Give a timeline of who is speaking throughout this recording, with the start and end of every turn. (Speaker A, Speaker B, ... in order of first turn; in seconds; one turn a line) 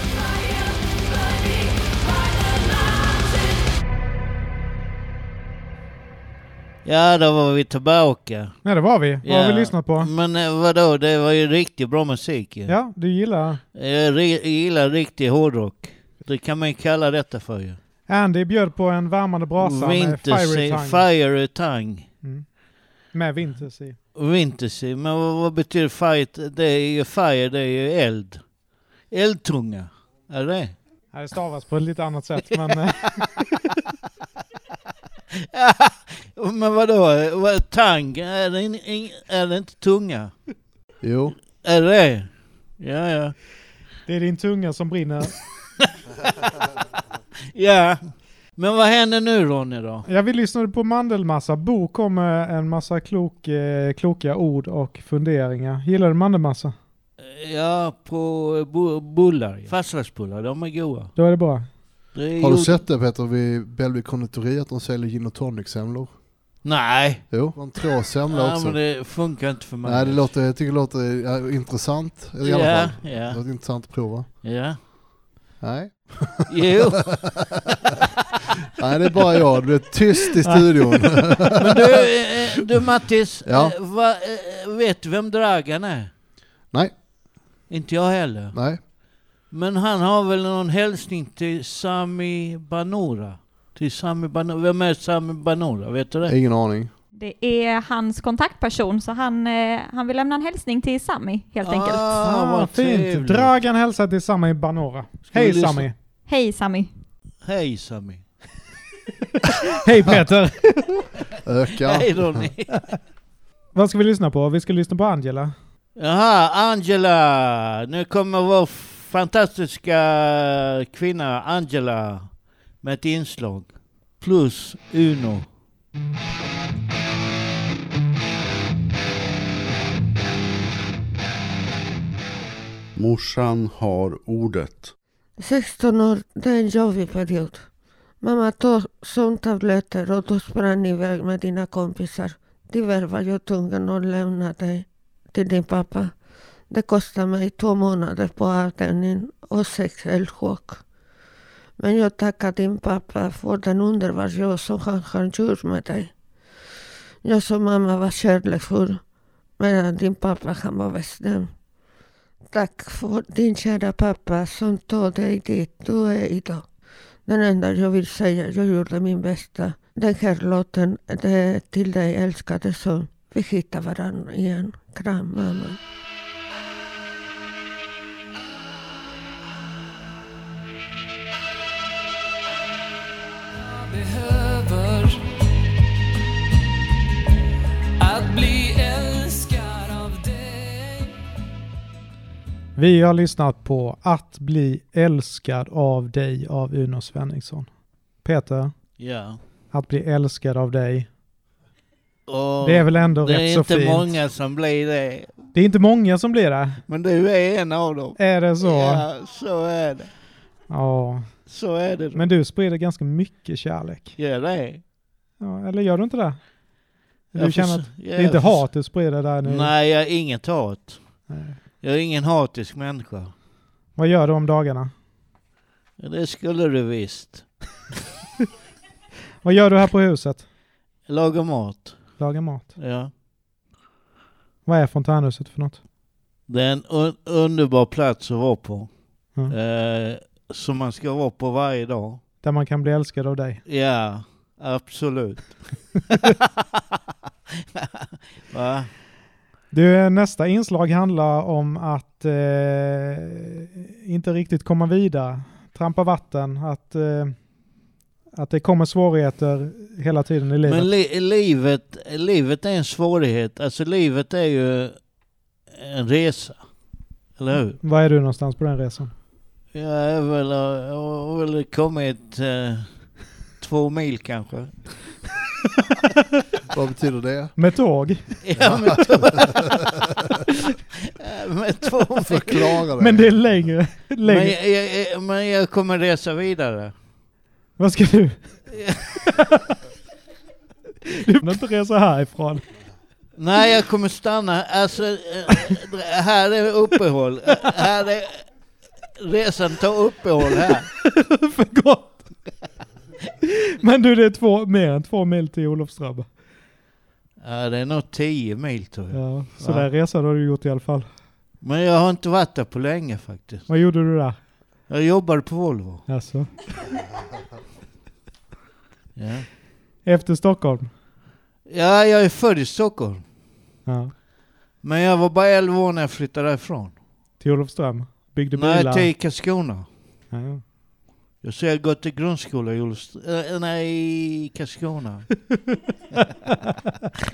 Speaker A: 6.8-8.6
Speaker B: 8.6-10.1
Speaker A: 9.2-12.7
Speaker B: 12.7-13.6
Speaker A: 13.8-17.8
Speaker B: 18.1-21.0
Speaker A: 19.6-22.1
Speaker B: 23.1-24.0
Speaker A: 24.1-28.4
Speaker A: 29.1-30.8
Speaker B: 31.1-33.2
Speaker A: 35.4-40.3
Speaker C: 41.0-41.4
Speaker A: 41.6-43.4
Speaker B: 44.1-45.3
Speaker A: 47.5-48.0
Speaker A: 48.6-50.1
Speaker B: 50.1-56.8
Speaker A: 57.2-61.1
Speaker B: 61.2-61.7
Speaker A: 62.1-62.8
Speaker C: 62.4-66.1
Speaker A: 66.6-67.5
Speaker C: 67.3-68.8
Speaker A: 68.3-70.3
Speaker C: 69.8-74.3
Speaker A: 72.4-73.4
Speaker A: 74.4-74.8
Speaker C: 75.6-77.3
Speaker A: 76.5-77.2
Speaker C: 78.8-82.1
Speaker A: 81.6-86.1
Speaker C: 83.5-83.7
Speaker A: 87.7-88.6
Speaker C: 88.5-88.8
Speaker A: 89.5-96.3
Speaker C: 96.2-96.9
Speaker D: 97.2-102.1
Speaker A: 101.6-103.5
Speaker B: 102.2-105.9
Speaker A: 105.3-105.9
Speaker D: 106.3-106.9
Speaker A: 107.4-108.2
Speaker B: 109.8-110.9
Speaker C: 111.4-112.5
Speaker A: 111.8-112.8
Speaker B: 113.8-115.5
Speaker A: 116.0-122.3
Speaker A: 122.8-125.5
Speaker E: 133.0-134.9
Speaker F: 135.4-137.6
Speaker F: 138.2-146.1
Speaker F: 146.7-150.8
Speaker F: 151.8-156.1
Speaker F: 157.2-159.0
Speaker F: 159.6-161.5
Speaker F: 162.5-166.7
Speaker F: 167.3-175.8
Speaker G: 184.5-185.1
Speaker G: 188.1-190.7
Speaker B: 192.8-197.7
Speaker B: 198.2-198.7
Speaker A: 199.0-199.4
Speaker B: 199.7-201.1
Speaker A: 202.3-205.3
Speaker B: 202.6-204.1
Speaker B: 205.5-206.8
Speaker A: 206.9-210.1
Speaker B: 208.2-209.0
Speaker B: 210.7-211.4
Speaker A: 211.5-212.3
Speaker B: 212.1-214.2
Speaker A: 214.2-214.8
Speaker B: 215.4-216.4
Speaker B: 217.3-219.7
Speaker A: 217.3-218.7
Speaker A: 219.4-221.0
Speaker B: 221.3-221.6
Speaker A: 221.8-223.3
Speaker B: 224.0-224.9
Speaker A: 226.0-227.5
Speaker B: 229.4-230.5
Speaker A: 231.1-232.0
Speaker B: 232.2-232.7
Speaker A: 232.8-233.1
Speaker B: 234.7-235.8
Speaker A: 236.5-238.9
Speaker A: 239.5-242.2
Speaker B: 242.4-243.6
Speaker A: 243.7-246.0
Speaker A: 248.5-248.9
Speaker B: 249.7-257.4
Speaker B: 258.3-260.9
Speaker A: 260.6-265.0
Speaker A: 265.7-266.6
Speaker A: 267.4-267.8
Speaker B: 267.8-269.1
Speaker A: 269.7-275.0
Speaker C: 276.7-277.5
Speaker B: 277.6-278.5
Speaker A: 278.4-279.5
Speaker C: 278.6-279.7
Speaker A: 281.2-282.8
Speaker C: 282.2-283.5
Speaker B: 283.0-284.6
Speaker A: 284.2-286.9
Speaker B: 287.8-288.7
Speaker A: 288.7-289.0
Speaker B: 291.1-292.6
Speaker A: 293.4-298.4
Speaker A: 299.2-300.9
Speaker B: 301.0-302.3
Speaker B: 303.8-306.3
Speaker A: 307.4-309.9
Speaker B: 309.1-311.1
Speaker A: 311.6-313.7
Speaker B: 313.7-314.4
Speaker A: 314.9-316.1
Speaker B: 316.1-316.6
Speaker A: 319.2-319.5
Speaker B: 320.0-320.9
Speaker A: 321.7-323.2
Speaker B: 323.9-324.1
Speaker A: 324.8-327.0
Speaker B: 327.4-329.1
Speaker A: 328.6-329.9
Speaker B: 330.3-330.6
Speaker A: 331.4-335.3